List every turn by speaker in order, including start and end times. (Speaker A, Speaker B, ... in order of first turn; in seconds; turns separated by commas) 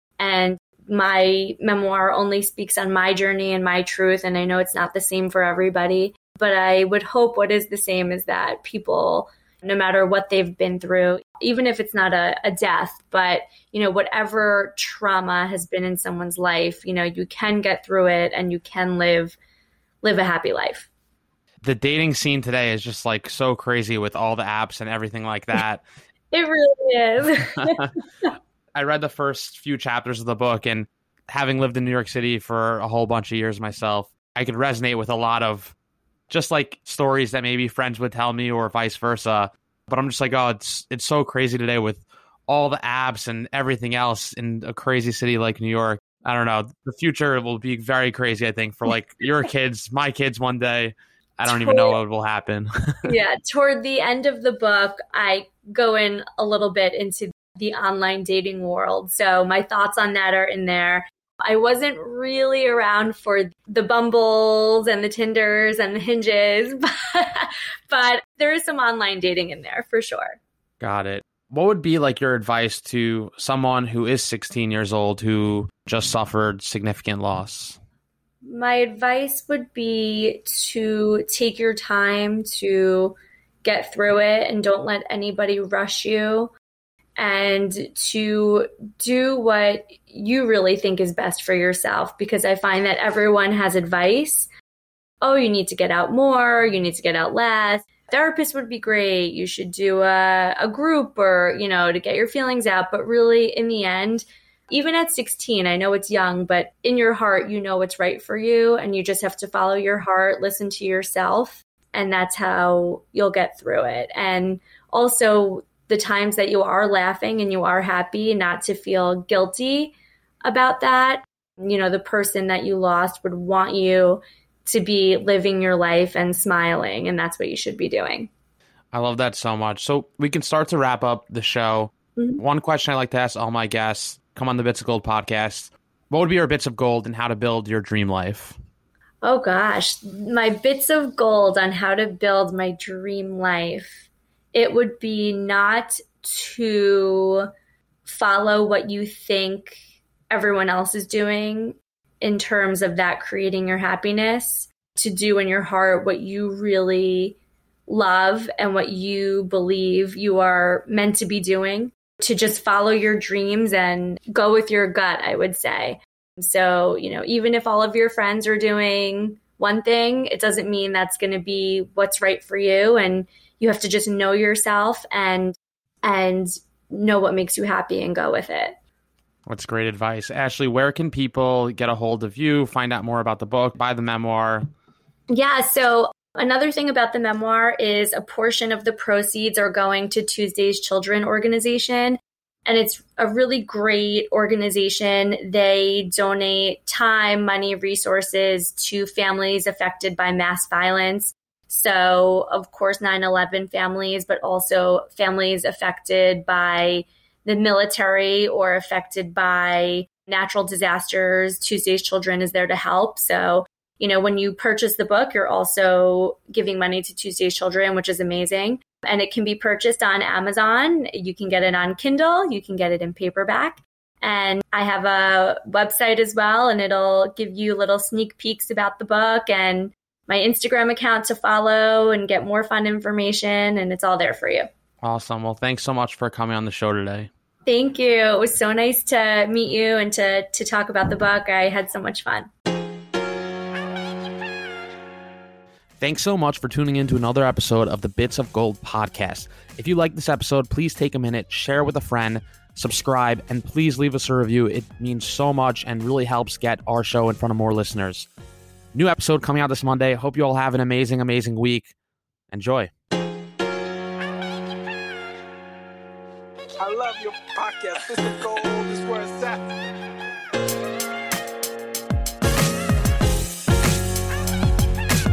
Speaker A: 0.2-19.4, Speaker A: 20.0-20.9, Speaker B: 21.6-25.8, Speaker A: 26.3-27.9, Speaker B: 27.6-27.9, Speaker B: 28.7-35.7, Speaker B: 36.3-53.1, Speaker A: 51.4-52.0, Speaker A: 53.0-70.4, Speaker B: 70.8-77.8, Speaker A: 78.4-86.5, Speaker A: 87.2-94.5, Speaker A: 95.2-119.9, Speaker A: 120.4-128.3, Speaker B: 128.9-138.6, Speaker A: 139.2-147.5, Speaker A: 148.0-178.8, Speaker B: 179.5-184.7, Speaker A: 185.3-234.7, Speaker B: 235.0-237.3, Speaker A: 237.7-242.5, Speaker B: 246.0-258.3, Speaker B: 258.9-261.9, Speaker B: 262.5-262.9, Speaker C: 266.8-269.7